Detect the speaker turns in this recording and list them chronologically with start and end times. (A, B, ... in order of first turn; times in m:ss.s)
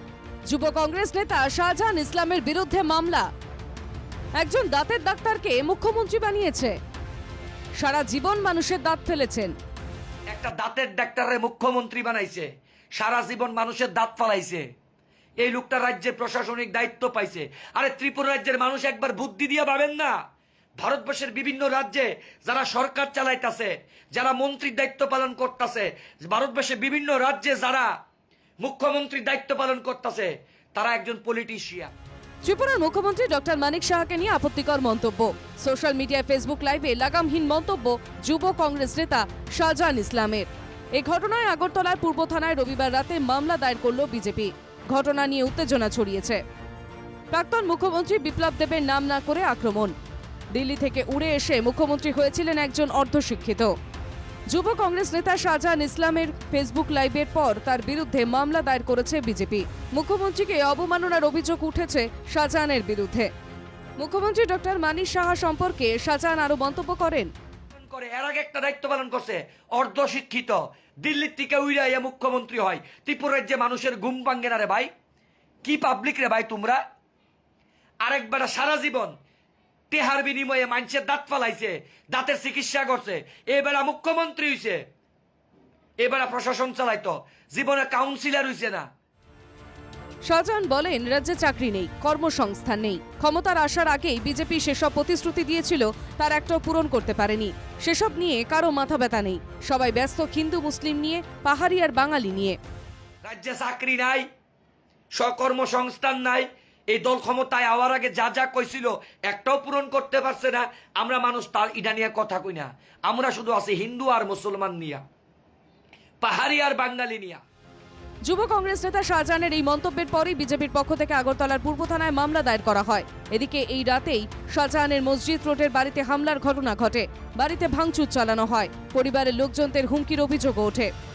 0:00.5-0:03.3 A
0:04.4-0:06.8 A
0:07.8-0:09.5 A
0:10.3-0:14.7 B
0:15.4-0:20.1 B
0:20.8-0:27.9 B
0:28.6-0:31.9 B
0:32.4-0:46.4 A
0:47.3-0:49.9 A
0:50.5-0:53.7 A
0:54.5-1:03.3 A
1:04.0-1:07.3 A
1:07.7-1:14.9 B
1:15.6-1:16.8 B
1:18.0-1:19.1 B
1:19.9-1:24.8 B
1:26.0-1:28.9 B
1:30.2-1:42.6 A
1:43.2-1:44.2 B
1:45.2-1:55.0 B
1:56.2-1:57.4 B
1:58.3-2:10.9 A